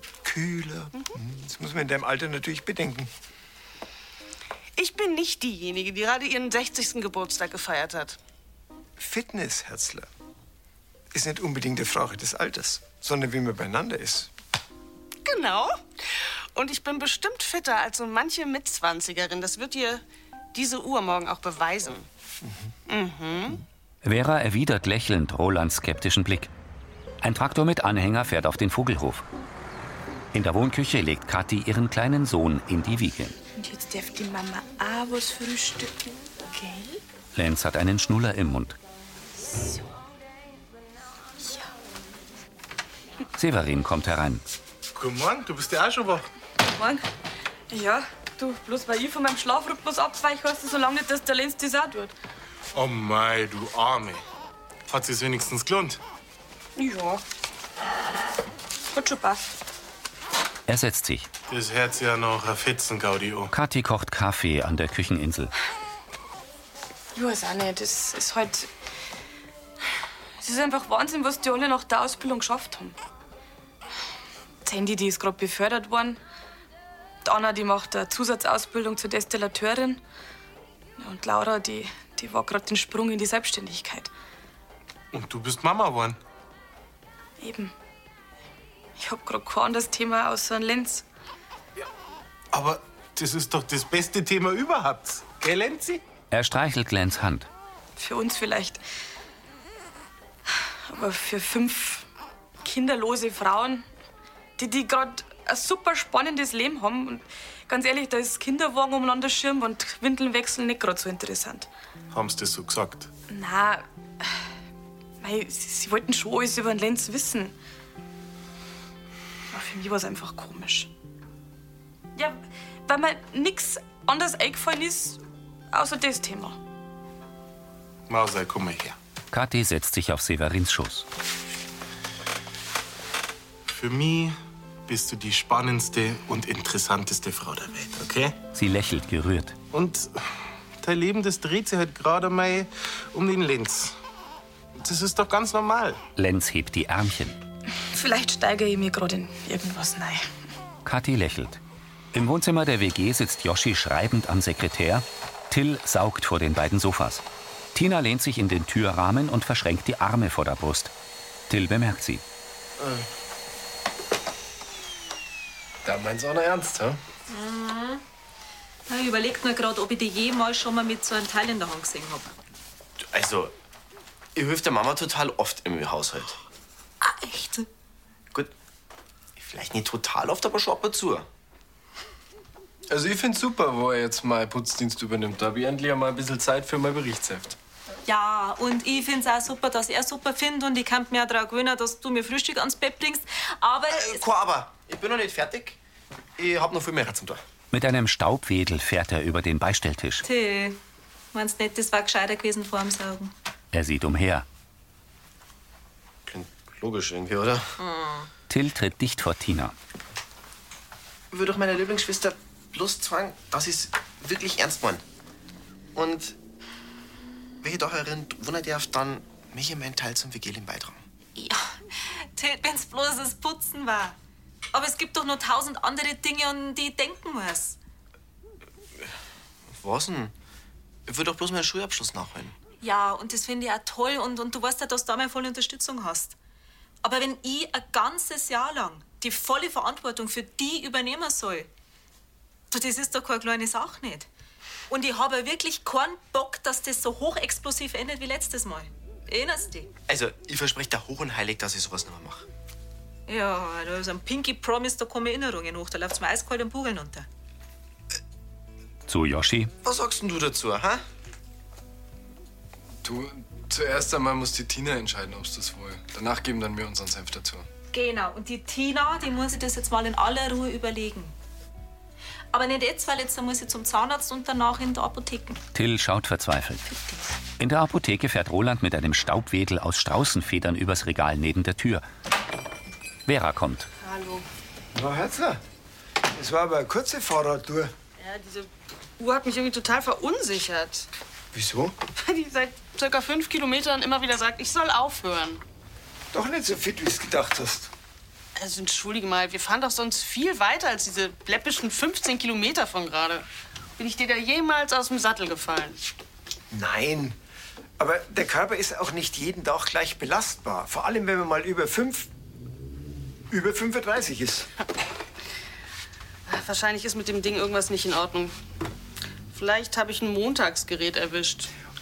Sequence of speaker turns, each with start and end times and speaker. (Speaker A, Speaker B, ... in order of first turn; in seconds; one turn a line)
Speaker A: 0.2-3.1
Speaker B: 4.8-8.2
Speaker A: 9.0-10.1
Speaker A: 11.1-14.3
Speaker B: 15.2-15.8
Speaker B: 16.5-20.0
Speaker B: 20.5-22.1
Speaker B: 22.9-23.6
Speaker C: 24.0-26.5
Speaker C: 27.2-29.2
Speaker C: 30.3-33.4
Speaker D: 33.6-37.0
Speaker C: 37.3-38.8
Speaker D: 39.5-39.8
Speaker C: 43.3-44.4
Speaker E: 44.9-46.3
Speaker D: 46.6-47.0
Speaker D: 47.7-52.1
Speaker E: 52.7-54.2
Speaker E: 54.9-56.0
Speaker D: 56.8-57.2
Speaker D: 58.9-59.4
Speaker C: 60.7-61.3
Speaker E: 61.5-63.5
Speaker C: 63.5-65.5
Speaker D: 67.1-68.7
Speaker D: 70.4-73.0
Speaker D: 74.6-76.2
Speaker D: 77.2-80.0
Speaker D: 81.0-84.1
Speaker E: 85.1-86.2
Speaker D: 87.4-87.7
Speaker D: 89.0-91.0
Speaker E: 92.5-96.0
Speaker C: 96.3-97.5
Speaker D: 98.0-98.8
Speaker D: 100.9-102.0
Speaker D: 102.6-103.8
Speaker D: 104.6-111.7
Speaker E: 112.1-113.1
Speaker D: 113.3-114.3
Speaker D: 115.2-117.5
Speaker D: 119.5-120.9
Speaker D: 122.2-125.2
Speaker D: 125.7-126.6
Speaker E: 128.1-128.9
Speaker C: 129.3-131.1
Speaker E: 133.7-134.3
Speaker E: 134.9-138.4
Speaker C: 138.5-139.6
Speaker E: 139.7-140.1
Speaker E: 140.8-143.9
Speaker E: 144.8-146.0
Speaker C: 146.2-147.4
Speaker D: 147.9-150.3
Speaker C: 150.8-151.6
Speaker C: 152.1-157.2
Speaker C: 157.7-160.9
Speaker C: 161.5-162.2
Speaker F: 165.8-167.0
Speaker G: 167.3-168.0
Speaker G: 168.9-172.3
Speaker H: 173.0-173.5
Speaker H: 174.3-176.4
Speaker G: 177.0-177.7
Speaker H: 179.4-181.2
Speaker F: 182.9-187.6
Speaker G: 188.1-194.2
Speaker H: 193.9-195.8
Speaker H: 196.4-197.4
Speaker C: 197.7-200.2
Speaker G: 200.2-200.8
Speaker G: 201.3-203.3
Speaker C: 203.7-204.4
Speaker H: 206.3-207.8
Speaker G: 207.8-208.3
Speaker C: 208.5-209.7
Speaker H: 211.3-215.0
Speaker H: 215.9-216.3
Speaker H: 217.6-221.0
Speaker G: 221.3-224.2
Speaker G: 224.7-227.8
Speaker H: 229.7-230.3
Speaker H: 231.1-232.5
Speaker G: 232.8-236.3
Speaker G: 237.0-241.7
Speaker G: 242.7-244.3
Speaker G: 244.9-249.9
Speaker H: 250.1-252.4
Speaker G: 253.3-257.3
Speaker C: 259.1-259.7
Speaker H: 259.8-261.0
Speaker F: 263.0-267.7
Speaker G: 267.9-271.3
Speaker G: 272.5-275.6
Speaker C: 275.7-276.8
Speaker C: 277.6-282.0
Speaker C: 283.3-283.9
Speaker B: 284.0-284.4
Speaker A: 284.9-285.6
Speaker A: 286.3-287.9
Speaker B: 288.2-291.1
Speaker A: 291.5-291.9
Speaker B: 292.1-295.6
Speaker A: 296.3-297.9
Speaker B: 298.6-303.4
Speaker B: 304.0-306.0
Speaker A: 306.7-307.4
Speaker A: 308.0-312.3
Speaker A: 313.5-314.7
Speaker B: 316.5-318.5
Speaker B: 319.5-321.7